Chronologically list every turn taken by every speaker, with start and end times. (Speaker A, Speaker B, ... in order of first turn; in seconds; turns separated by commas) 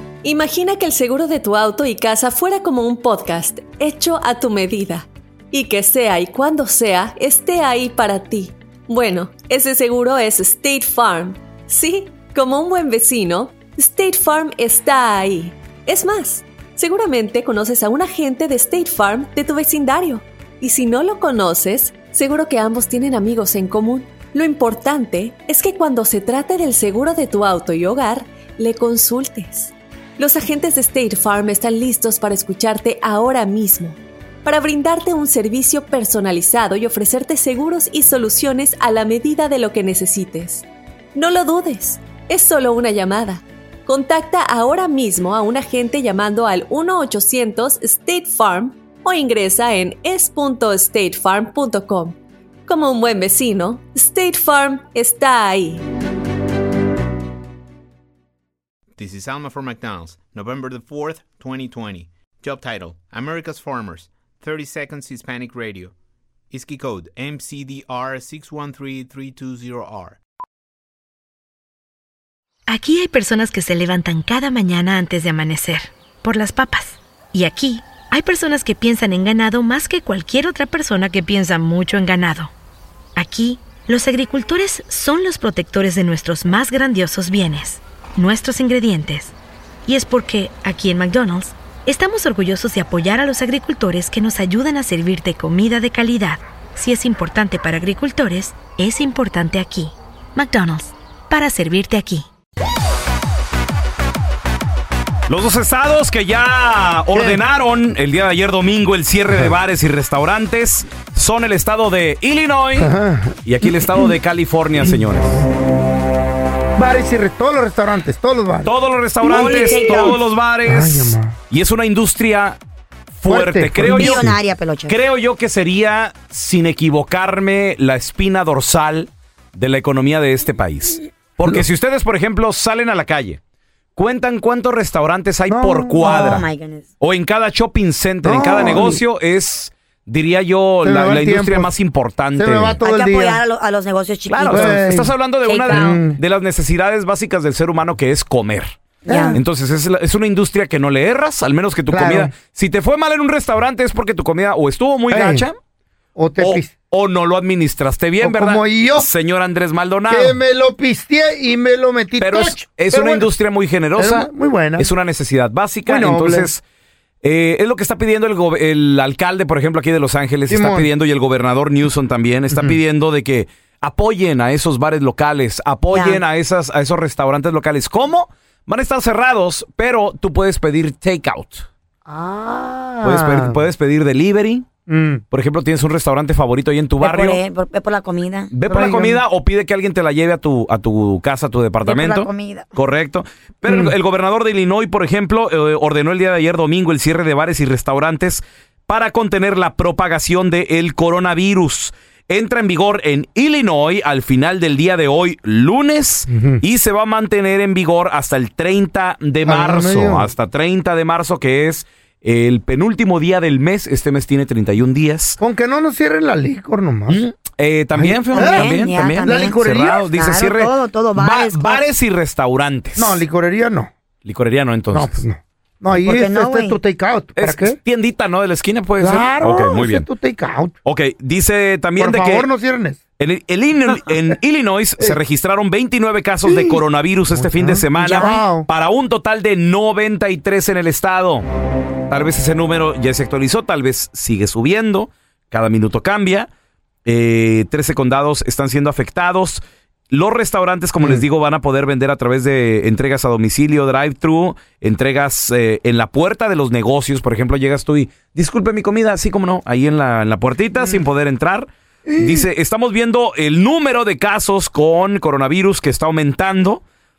Speaker A: 0.2-55.8, Speaker B: 59.0-65.9, Speaker B: 66.5-70.2, Speaker C: 72.7-82.5, Speaker C: 83.2-89.3, Speaker C: 89.8-102.3, Speaker D: 105.3-112.9, Speaker E: 107.1-107.4, Speaker E: 112.8-114.0, Speaker D: 113.4-115.4, Speaker E: 114.8-115.4, Speaker E: 116.8-118.7, Speaker D: 118.6-122.6, Speaker F: 119.2-120.2, Speaker E: 119.3-121.3, Speaker D: 123.2-124.3, Speaker E: 123.2-124.3, Speaker F: 123.9-125.0, Speaker D: 124.9-133.4, Speaker D: 133.9-136.5, Speaker E: 135.5-136.4, Speaker F: 136.0-136.9, Speaker D: 137.0-142.8, Speaker E: 138.2-139.0, Speaker E: 140.8-141.7, Speaker E: 142.3-143.4, Speaker F: 142.8-144.8, Speaker D: 144.3-148.7, Speaker E: 144.5-145.1, Speaker F: 145.4-146.0, Speaker E: 145.7-146.2, Speaker F: 149.1-149.4, Speaker E: 149.1-149.4, Speaker D: 149.3-155.6, Speaker E: 151.9-152.3, Speaker E: 155.1-155.4, Speaker E: 156.2-156.7, Speaker D: 156.4-160.4, Speaker E: 158.2-159.1, Speaker E: 160.1-163.3, Speaker D: 162.2-166.6, Speaker E: 163.9-164.9, Speaker E: 165.8-166.5, Speaker D: 167.2-181.7, Speaker E: 170.5-170.9, Speaker E: 172.5-172.8, Speaker F: 175.9-176.2, Speaker E: 182.1-183.6, Speaker D: 183.0-184.7, Speaker E: 184.9-185.2, Speaker D: 185.3-187.4, Speaker F: 187.0-188.5, Speaker D: 188.5-215.4, Speaker E: 188.7-189.2, Speaker F: 191.8-192.7, Speaker E: 193.7-193.9, Speaker E: 206.3-206.6, Speaker E: 209.4-210.3, Speaker E: 215.4-217.2, Speaker D: 217.1-223.2, Speaker E: 217.9-220.0, Speaker F: 218.3-219.6, Speaker F: 220.1-221.8, Speaker E: 222.9-223.9, Speaker D: 224.2-225.2, Speaker E: 224.9-227.8, Speaker F: 226.0-226.8, Speaker D: 227.3-230.1, Speaker E: 229.0-230.7, Speaker D: 230.8-232.5, Speaker E: 232.0-233.0, Speaker D: 233.2-241.4, Speaker E: 236.4-238.7, Speaker F: 238.0-238.4, Speaker D: 242.1-246.5, Speaker D: 247.1-266.8, Speaker E: 251.0-251.2, Speaker E: 260.8-261.0, Speaker E: 262.1-262.5